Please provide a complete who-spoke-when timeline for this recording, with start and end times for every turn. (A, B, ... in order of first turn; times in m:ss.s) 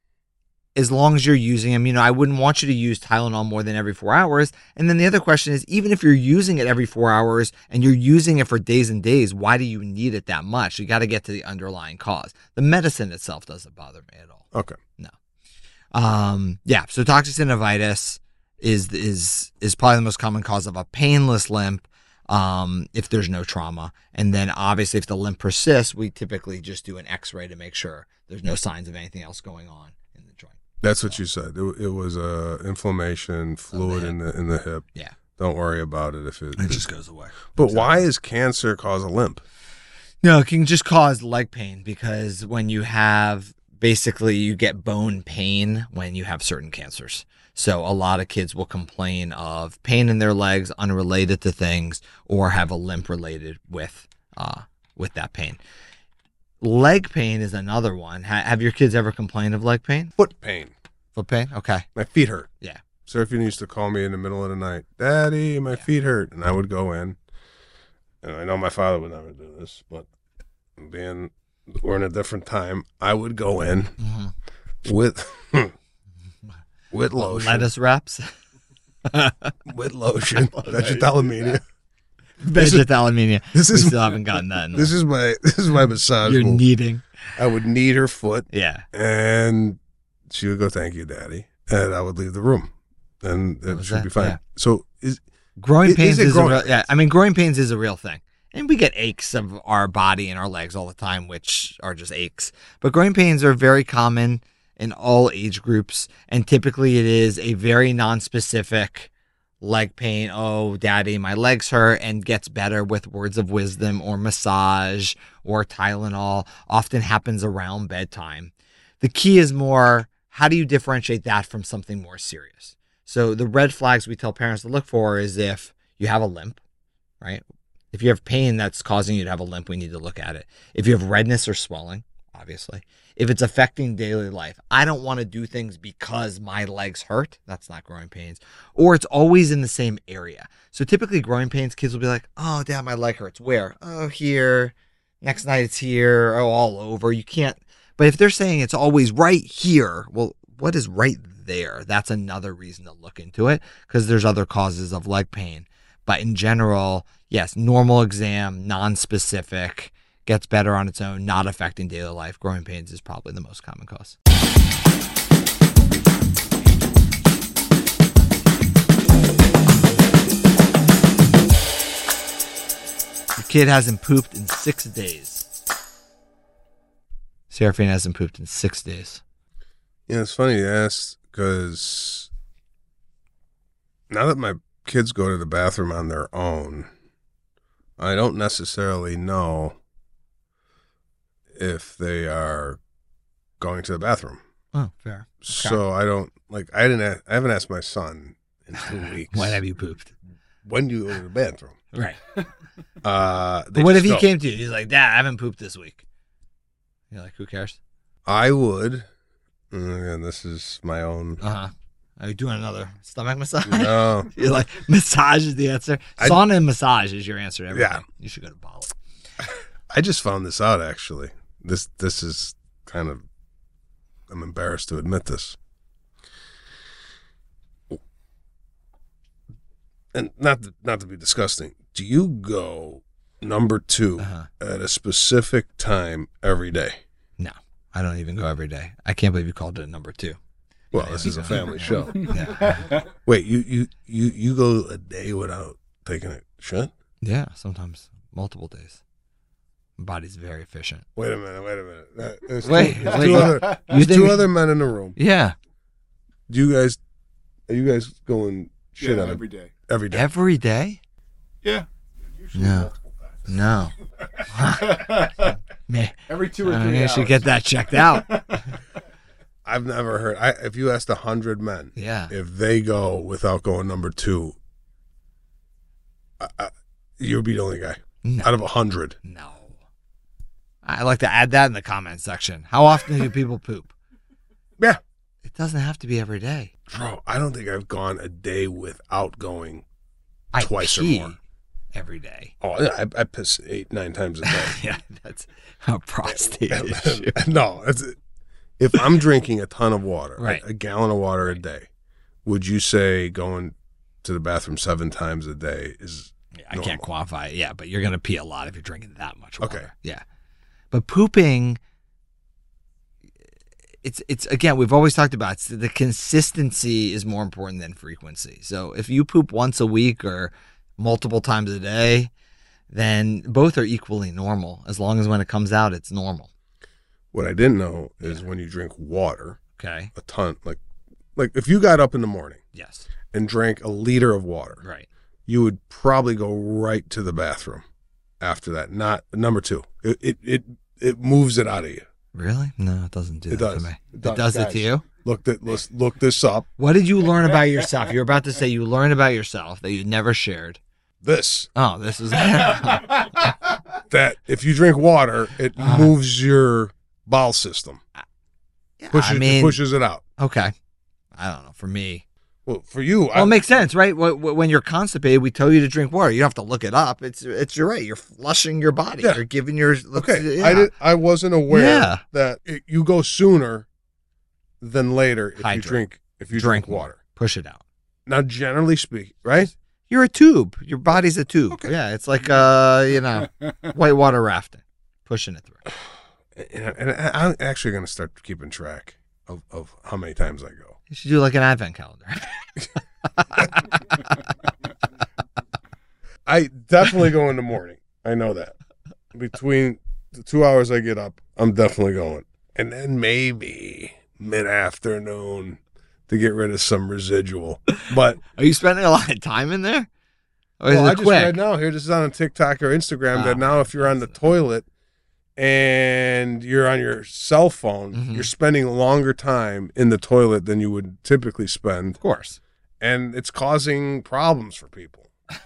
0:00.8-0:14.5 A
0:14.5-0:14.8 B
0:15.9-0:31.2 A
0:30.8-0:34.8 B
0:33.7-0:34.2 A
0:35.4-0:36.9 B
0:36.6-0:38.1 A
0:37.5-0:39.4 B
0:40.2-0:55.6 A
0:56.6-1:00.1 A
1:00.2-1:00.7 B
1:01.2-1:01.9 A
1:01.9-1:02.5 B
1:03.0-1:07.2 B
1:08.2-1:10.1 B
1:10.8-1:14.0 B
1:14.0-1:14.3 A
1:14.8-1:15.7 B
1:16.9-1:17.7 B
1:17.2-1:18.3 A
1:19.0-1:19.5 A
1:19.6-1:21.6 B
1:20.6-1:21.0 A
1:22.4-1:24.9 A
1:22.6-1:22.9 B
1:23.5-1:24.2 B
1:24.7-1:26.6 B
1:26.2-1:27.0 A
1:27.4-1:32.7 B
1:28.5-1:28.8 A
1:33.2-1:35.2 B
1:33.7-1:34.4 A
1:35.6-1:49.1 A
1:35.8-1:36.9 B
1:49.6-2:06.6 A
2:07.2-2:44.2 A
2:53.4-2:55.5 A
2:57.5-2:59.2 A
3:00.1-3:02.3 B
3:04.1-3:06.9 B
3:08.0-3:09.8 B
3:11.5-3:12.8 B
3:13.6-3:14.4 B
3:14.7-3:15.8 A
3:15.4-3:19.6 B
3:18.8-3:20.1 A
3:20.6-3:21.8 B
3:21.9-3:22.2 A
3:23.0-3:24.3 B
3:23.7-3:26.0 A
3:27.1-3:27.8 A
3:28.2-3:29.1 B
3:29.7-3:31.4 B
3:31.4-3:38.9 A
3:33.6-3:34.3 B
3:37.7-3:38.0 B
3:39.9-3:43.2 B
3:44.3-3:45.6 B
3:50.1-3:57.0 B
3:54.2-3:54.5 A
3:57.4-4:00.4 A
4:00.9-4:02.6 B
4:00.9-4:02.9 A
4:01.9-4:03.0 C
4:03.2-4:06.9 B
4:07.2-4:09.0 A
4:10.0-4:11.0 A
4:11.2-4:15.2 B
4:12.6-4:14.5 A
4:12.8-4:13.8 C
4:15.2-4:15.5 A
4:16.5-4:17.0 B
4:17.7-4:20.3 B
4:19.0-4:19.7 C
4:20.1-4:21.0 A
4:21.6-4:21.9 C
4:22.4-4:23.0 C
4:22.5-4:22.9 A
4:23.5-4:23.9 A
4:24.5-4:28.5 A
4:24.7-4:25.5 C
4:26.3-4:28.6 C
4:29.6-4:34.6 B
4:32.0-4:32.3 A
4:36.4-4:39.2 B
4:38.2-4:38.5 A
4:39.2-4:39.7 A
4:40.8-4:43.9 A
4:45.4-4:46.7 A
4:46.9-4:49.8 B
4:50.5-4:51.4 A
4:50.6-4:51.4 B
4:51.9-4:52.5 A
4:52.6-4:54.8 B
4:54.4-4:57.4 A
4:56.2-4:58.2 B
4:58.8-5:01.9 B
5:00.4-5:00.6 A
5:02.4-5:07.0 B
5:06.5-5:10.2 A
5:09.6-5:09.9 B
5:10.9-5:11.8 A
5:14.0-5:22.3 A
5:22.9-5:26.5 A
5:27.3-5:29.6 B
5:29.8-5:30.1 A
5:30.1-5:30.8 B
5:31.4-5:32.6 B
5:32.7-5:33.0 A
5:33.3-5:34.8 B
5:34.8-5:35.1 A
5:35.5-5:37.8 B
5:38.4-5:42.0 B
5:42.3-5:45.0 A
5:43.5-5:46.7 B
5:46.8-5:50.8 A
5:51.2-5:51.7 B
5:51.7-5:53.4 A
5:54.1-5:58.0 B
5:55.8-5:56.1 A
5:59.0-5:59.8 A
5:59.1-6:00.2 B
6:00.4-6:00.7 A
6:01.3-6:02.2 A
6:02.6-6:03.6 B
6:03.3-6:10.9 A
6:10.1-6:13.9 B
6:11.7-6:12.2 A
6:14.8-6:17.2 B
6:15.6-6:17.8 A
6:18.2-6:19.7 B
6:20.1-6:25.8 A
6:26.5-6:31.0 B
6:31.1-6:34.0 A
6:36.4-6:38.7 B
6:39.3-6:48.4 B
6:48.0-6:50.1 A
6:50.8-6:51.6 A
6:50.9-6:54.8 B
6:53.3-6:54.4 A
6:55.6-7:02.2 B
6:58.1-6:58.5 A
7:02.2-7:02.6 A
7:03.0-7:05.3 B